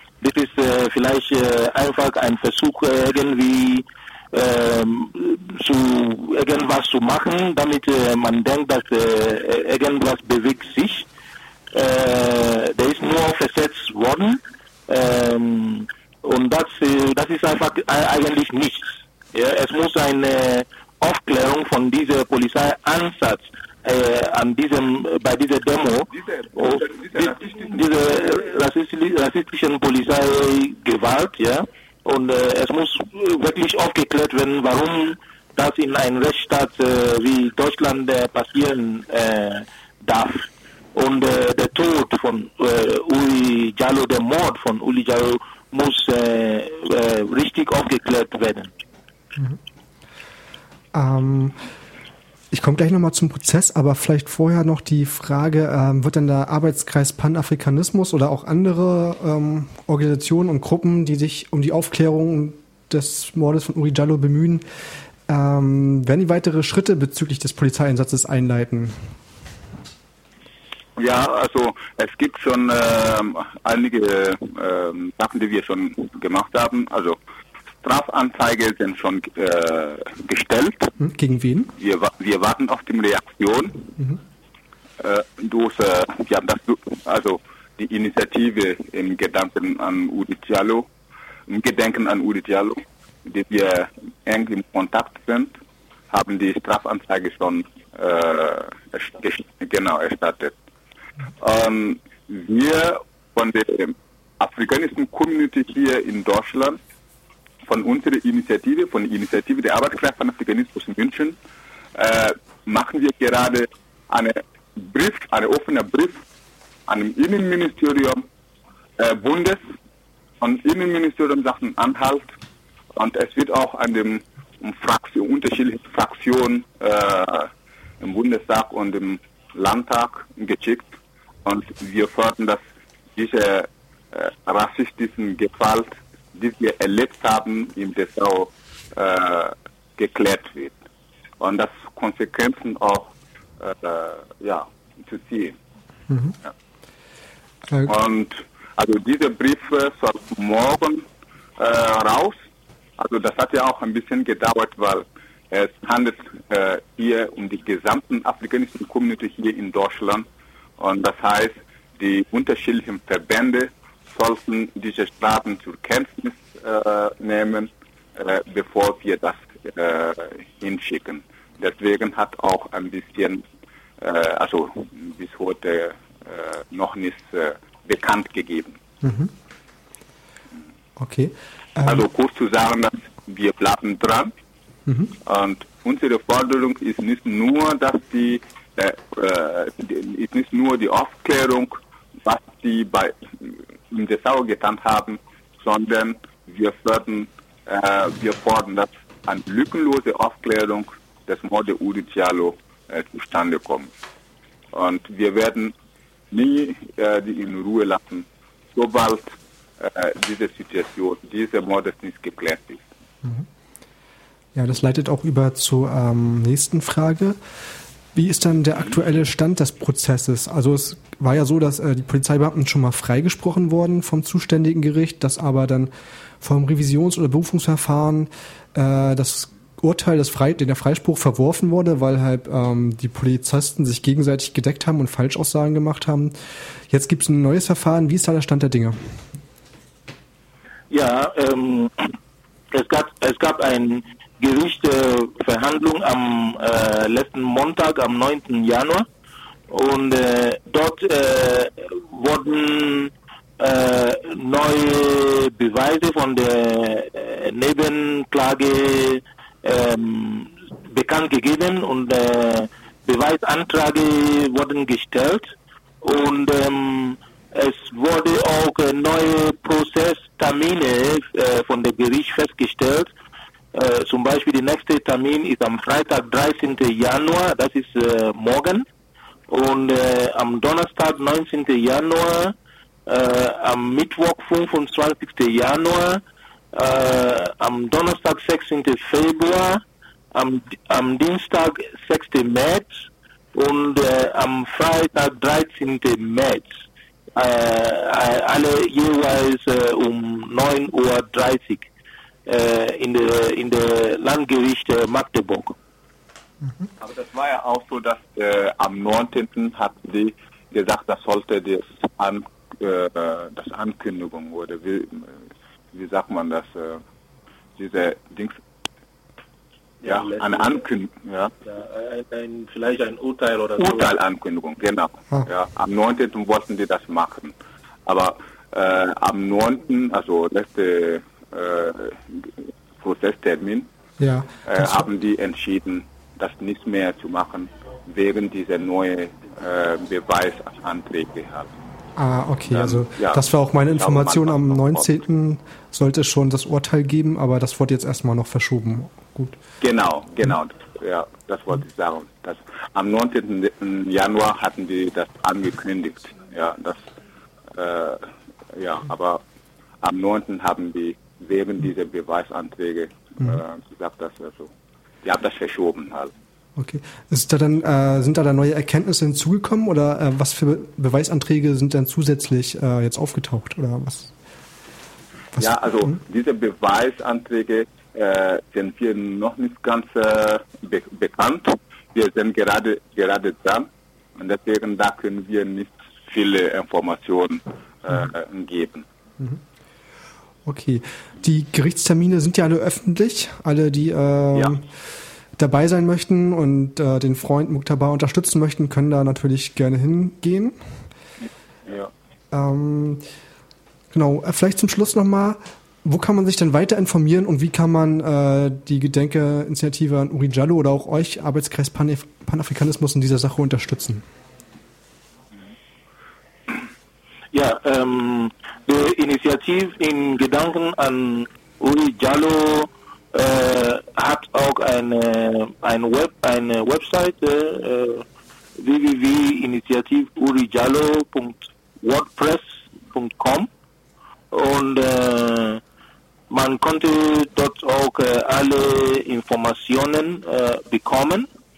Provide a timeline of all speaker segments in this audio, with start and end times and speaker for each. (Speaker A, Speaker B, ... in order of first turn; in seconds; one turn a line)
Speaker A: 0.2-11.1
Speaker A: 11.7-48.7
Speaker B: 26.9-27.6
Speaker C: 50.9-51.6
Speaker C: 52.5-64.6
Speaker C: 65.3-69.0
Speaker B: 71.0-77.2
Speaker B: 77.8-80.9
Speaker C: 81.0-81.7
Speaker B: 81.8-83.9
Speaker B: 85.0-90.9
Speaker B: 91.5-95.5
Speaker B: 96.1-100.5
Speaker B: 101.4-106.8
Speaker B: 107.7-111.4
Speaker B: 111.9-116.2
Speaker B: 116.9-118.2
Speaker B: 119.0-119.6
Speaker B: 120.4-122.3
Speaker B: 122.9-130.9
Speaker B: 131.4-132.6
Speaker B: 133.2-140.8
Speaker B: 141.4-145.6
Speaker C: 146.1-146.3
Speaker B: 147.9-151.1
Speaker B: 151.6-152.4
Speaker B: 153.0-160.3
Speaker B: 160.8-173.4
Speaker B: 174.0-178.8
Speaker C: 179.0-179.3
Speaker C: 181.0-182.0
Speaker B: 181.8-184.3
Speaker C: 184.8-185.1
Speaker B: 185.2-203.9
Speaker B: 204.7-205.7
Speaker B: 206.3-212.8
Speaker C: 214.5-217.4
Speaker C: 218.1-236.3
Speaker C: 236.9-239.0
Speaker A: 240.9-242.2
Speaker A: 242.7-249.1
Speaker A: 249.7-273.1
Speaker A: 273.7-278.9
Speaker A: 279.5-282.5
Speaker A: 283.1-286.2
Speaker A: 286.7-289.8
Speaker A: 290.3-296.6
Speaker A: 297.4-301.9
Speaker A: 302.4-305.7
Speaker B: 307.0-315.4
Speaker B: 315.9-317.0
Speaker B: 317.8-318.6
Speaker A: 320.0-320.8
Speaker B: 320.0-321.5
Speaker A: 321.6-324.1
Speaker B: 323.8-327.5
Speaker B: 328.1-333.9
Speaker C: 334.2-335.0
Speaker B: 334.6-341.7
Speaker C: 342.2-349.6
Speaker B: 342.7-345.1
Speaker B: 349.8-357.0
Speaker B: 357.7-359.4
Speaker B: 360.0-364.7
Speaker B: 365.2-366.3
Speaker C: 366.8-374.3
Speaker C: 375.6-376.1
Speaker B: 375.6-389.1
Speaker C: 390.6-394.9
Speaker C: 395.6-400.8
Speaker B: 401.9-402.1
Speaker C: 402.5-403.2
Speaker C: 404.1-414.2
Speaker A: 417.5-428.2
Speaker A: 428.8-433.7
Speaker A: 434.5-435.8
Speaker A: 436.5-441.5